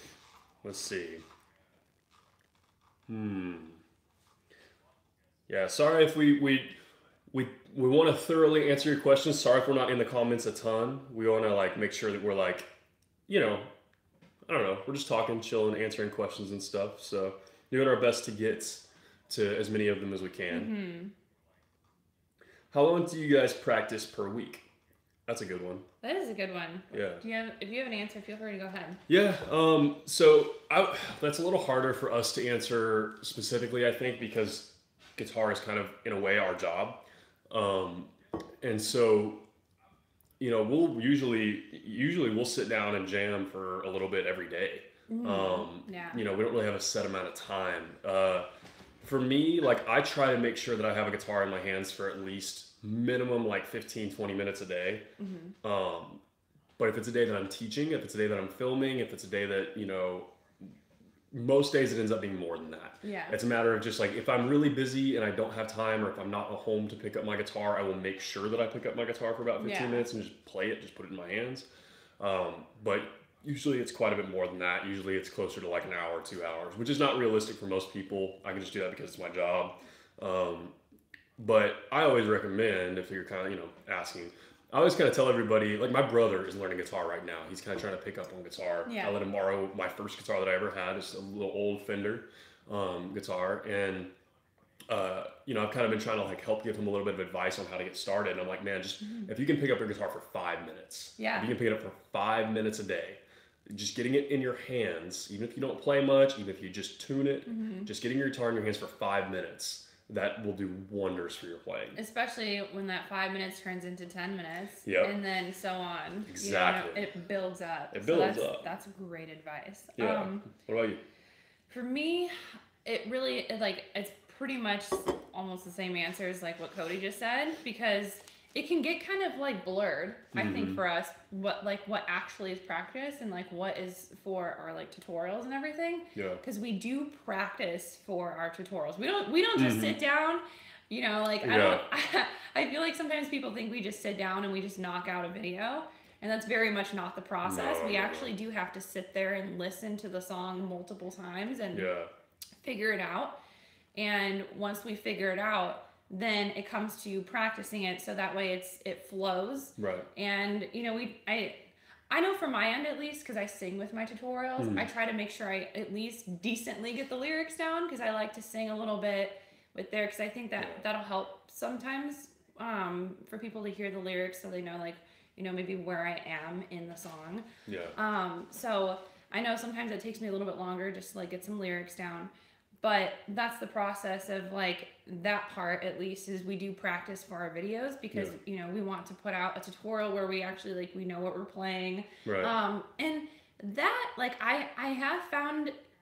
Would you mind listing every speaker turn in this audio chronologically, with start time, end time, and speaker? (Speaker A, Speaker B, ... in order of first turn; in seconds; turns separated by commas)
Speaker A: 0.6-1.2, Speaker A: 3.1-3.8, Speaker A: 5.5-6.7, Speaker A: 7.3-12.7, Speaker A: 13.3-13.7, Speaker A: 14.5-20.7, Speaker B: 20.5-21.1, Speaker A: 22.7-24.6, Speaker A: 25.3-25.8, Speaker B: 26.0-29.0, Speaker A: 26.9-27.2, Speaker A: 29.1-39.4, Speaker A: 40.4-48.5, Speaker B: 45.1-46.2, Speaker A: 49.0-55.0, Speaker B: 55.2-55.5, Speaker A: 55.6-56.2, Speaker A: 56.8-60.3, Speaker A: 61.3-71.7, Speaker B: 63.0-63.4, Speaker B: 69.6-70.1, Speaker A: 72.2-80.7, Speaker A: 81.4-94.1, Speaker B: 88.8-89.1, Speaker A: 94.9-112.0, Speaker B: 99.0-99.3, Speaker B: 101.2-101.5, Speaker B: 107.5-107.9, Speaker B: 112.0-120.5, Speaker A: 114.8-115.1, Speaker A: 116.3-117.1, Speaker A: 117.9-118.7, Speaker A: 120.0-121.0, Speaker B: 121.7-151.9, Speaker A: 130.3-130.8, Speaker A: 136.1-136.4, Speaker A: 139.6-140.0, Speaker A: 141.4-141.8, Speaker A: 147.4-148.3, Speaker A: 151.7-152.1, Speaker B: 152.6-153.4, Speaker B: 153.9-182.3, Speaker A: 159.8-160.1, Speaker A: 164.6-164.9, Speaker A: 177.7-177.9, Speaker B: 182.8-195.7, Speaker A: 192.2-192.5